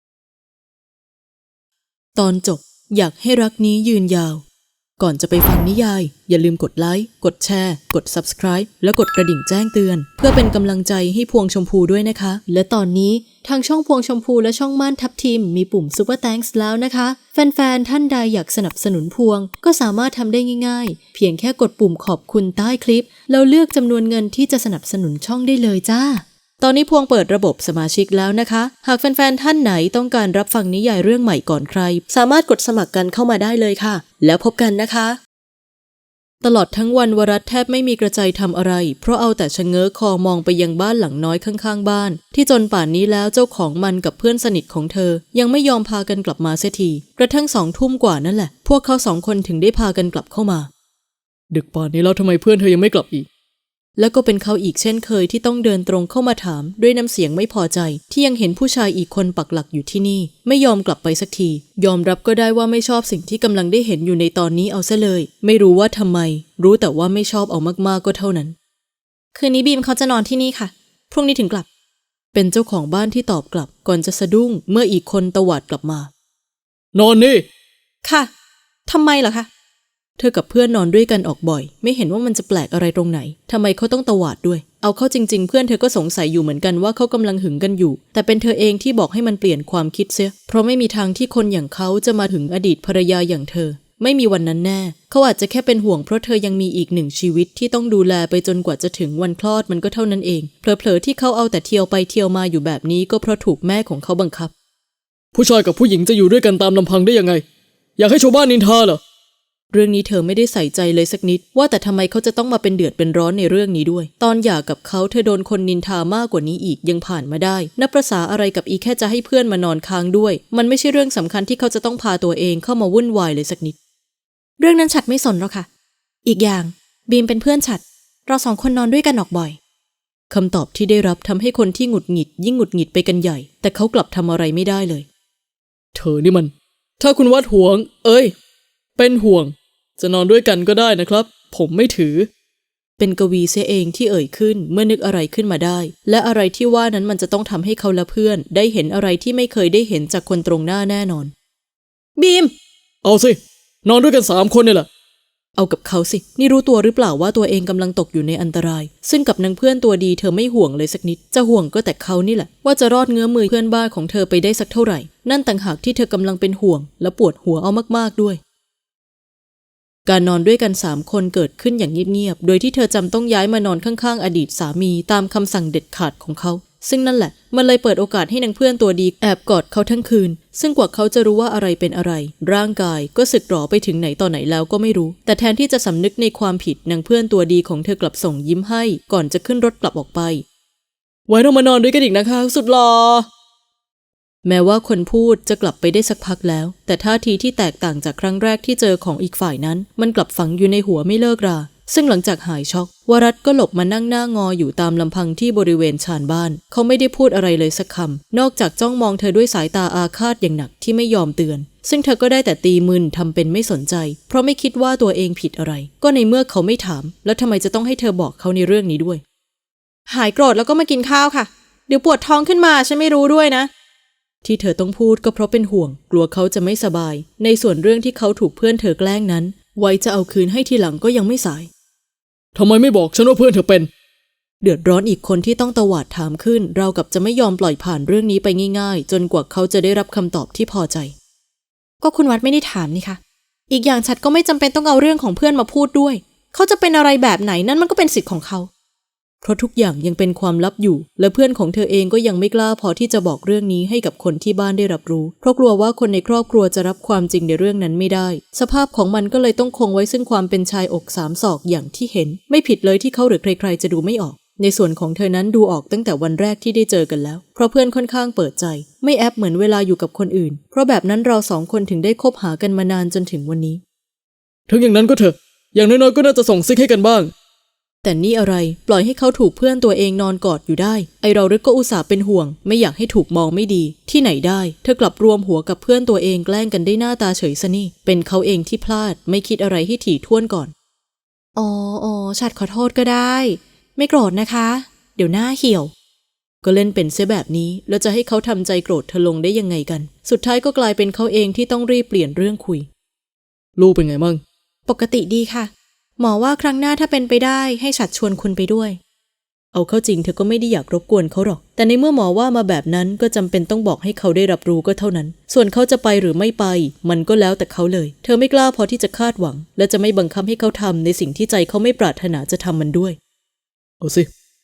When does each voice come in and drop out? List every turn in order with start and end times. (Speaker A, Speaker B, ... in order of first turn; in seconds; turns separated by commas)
Speaker A: 2.1-4.4, Speaker A: 5.0-35.2, Speaker A: 36.4-50.7, Speaker B: 51.5-53.3, Speaker A: 54.0-68.5, Speaker A: 69.3-71.7, Speaker A: 72.3-76.1, Speaker B: 76.9-77.5, Speaker A: 78.0-78.3, Speaker A: 78.9-79.5, Speaker A: 80.2-104.5, Speaker B: 105.3-107.4, Speaker B: 108.0-109.0, Speaker A: 109.7-123.8, Speaker A: 124.6-125.7, Speaker A: 126.2-129.6, Speaker A: 130.3-135.1, Speaker B: 135.9-138.3, Speaker B: 138.9-142.3, Speaker A: 143.0-151.3, Speaker A: 152.2-152.5, Speaker B: 153.0-154.9, Speaker A: 155.6-168.4, Speaker A: 170.1-190.4, Speaker B: 191.3-193.3, Speaker A: 194.4-219.2, Speaker A: 220.1-223.7, Speaker A: 224.4-231.7, Speaker B: 232.5-233.9, Speaker A: 234.6-241.1, Speaker A: 242.0-248.7, Speaker A: 249.4-273.8, Speaker B: 274.7-277.3, Speaker A: 278.0-290.7, Speaker A: 291.6-295.9, Speaker A: 296.6-302.9, Speaker B: 303.8-304.4, Speaker A: 304.9-309.0, Speaker A: 309.7-323.2, Speaker B: 324.0-324.3